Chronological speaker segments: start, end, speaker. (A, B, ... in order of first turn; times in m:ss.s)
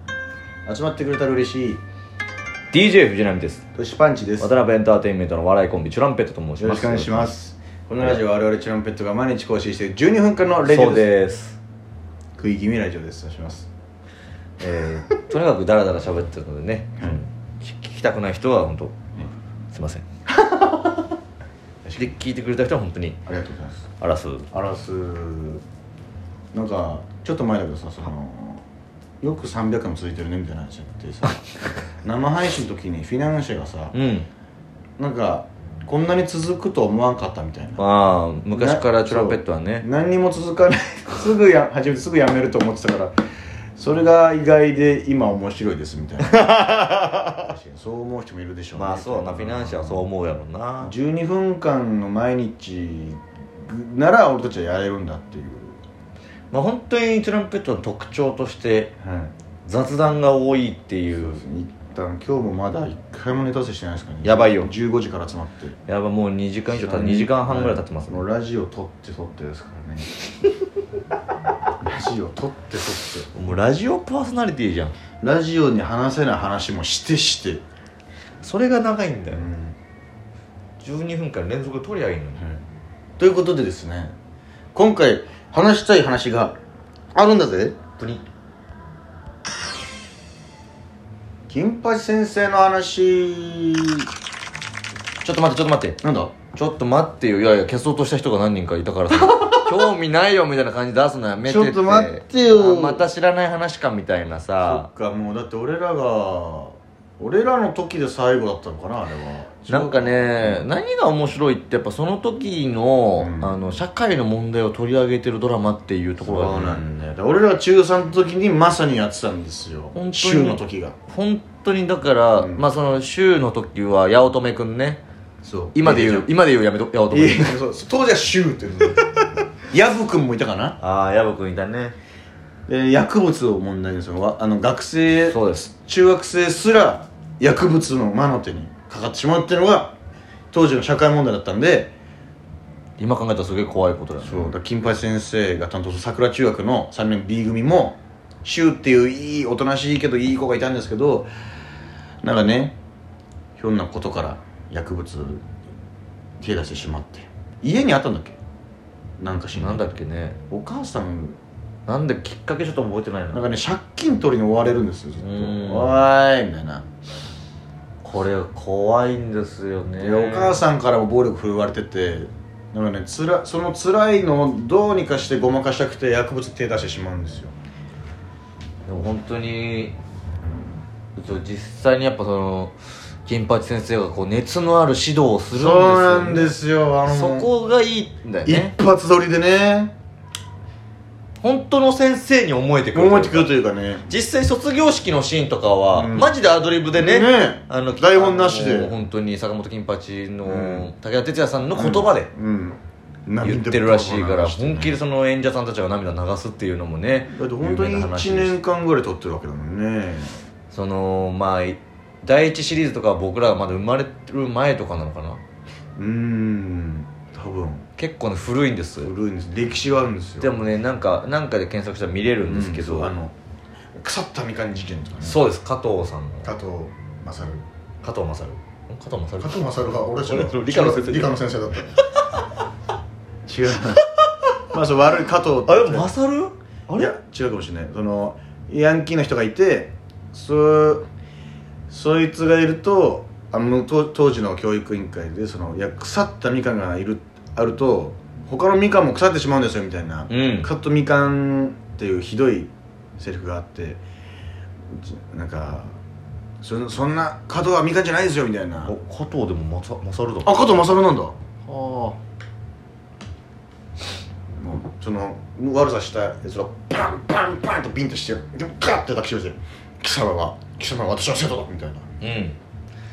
0:00.6-0:01.8 A
0:02.7-0:03.6 B
0:03.7-0:04.5 A
0:04.4-0:07.3 B
0:06.6-0:11.1 A
0:10.6-0:11.6 B
0:12.4-0:13.7 A
0:14.6-0:19.0 B
0:19.7-0:20.0 B
0:20.3-0:21.1 A
0:21.8-0:22.2 A
0:22.0-0:23.2 B
0:23.2-0:23.8 A
0:24.0-0:24.5 B
0:24.5-0:25.6 A
0:26.5-0:28.6 A
0:29.2-0:31.4 A
0:32.0-0:33.9 A
0:33.9-0:34.3 B
0:35.0-0:37.8 A
0:37.8-0:39.8 B
0:38.5-0:43.1 A
0:43.8-0:46.5 A
0:46.3-0:47.4 B
0:47.4-0:50.1 A
0:48.7-0:50.9 B
0:50.8-0:55.8 A
0:56.5-0:58.9 B
0:59.0-0:59.3 A
0:59.6-1:01.4 B
1:01.1-1:05.8 A
1:04.2-1:04.7 B
1:05.9-1:08.2 B
1:06.7-1:10.1 A
1:11.8-1:13.3 A
1:13.3-1:14.9 B
1:15.2-1:17.6 A
1:18.4-1:19.4 B
1:19.3-1:19.8 A
1:20.8-1:22.5 B
1:23.2-1:24.1 A
1:24.7-1:26.6 A
1:27.1-1:27.8 A
1:28.0-1:28.2 B
1:31.5-1:34.1 A
1:35.2-1:36.0 B
1:36.0-1:36.3 A
1:36.5-1:44.9 B
1:39.2-1:39.9 A
1:41.4-1:43.0 A
1:44.6-1:50.7 A
1:49.7-1:56.8 B
1:53.2-1:53.6 A
1:56.2-2:01.0 A
1:59.9-2:05.0 B
2:02.4-2:02.7 A
2:05.4-2:06.3 A
2:05.7-2:07.6 B
2:07.1-2:09.0 A
2:09.7-2:10.8 A
2:10.8-2:12.0 B
2:12.7-2:19.9 A
2:15.3-2:15.7 B
2:20.5-2:21.9 A
2:23.0-2:24.5 B
2:24.2-2:31.3 A
2:32.2-2:32.8 A
2:33.6-2:35.5 A
2:36.4-2:38.4 A
2:39.2-2:39.9 A
2:39.6-2:40.4 B
2:40.5-2:41.4 A
2:41.9-2:43.4 B
2:43.3-2:46.8 A
2:45.2-2:46.0 B
2:48.0-2:50.6 B
2:50.0-2:57.5 A
2:58.9-3:00.0 B
3:01.2-3:02.7 B
3:03.2-3:08.7 B
3:05.5-3:07.5 A
3:08.4-3:09.9 A
3:11.4-3:13.5 B
3:12.9-3:14.0 A
3:14.1-3:22.3 B
3:15.9-3:16.3 A
3:16.9-3:18.9 A
3:20.4-3:20.9 A
3:21.7-3:25.0 A
3:23.4-3:28.6 B
3:27.3-3:30.4 A
3:30.7-3:35.4 B
3:36.0-3:37.8 A
3:38.0-3:39.1 B
3:39.0-3:40.5 A
3:40.4-3:43.1 B
3:42.4-3:43.3 A
3:44.0-3:45.4 A
3:45.2-3:46.5 B
3:46.4-3:47.6 A
3:48.0-3:49.6 B
3:49.4-3:52.0 A
3:50.2-3:51.4 B
3:53.4-3:54.1 A
3:54.7-3:56.1 A
3:55.6-3:57.2 B
3:57.0-4:01.0 A
4:01.9-4:14.0 A
4:10.3-4:10.7 B
4:14.9-4:15.9 A
4:16.6-4:18.9 A
4:18.8-4:20.9 B
4:20.4-4:22.2 A
4:24.6-4:32.0 A
4:32.2-4:32.6 B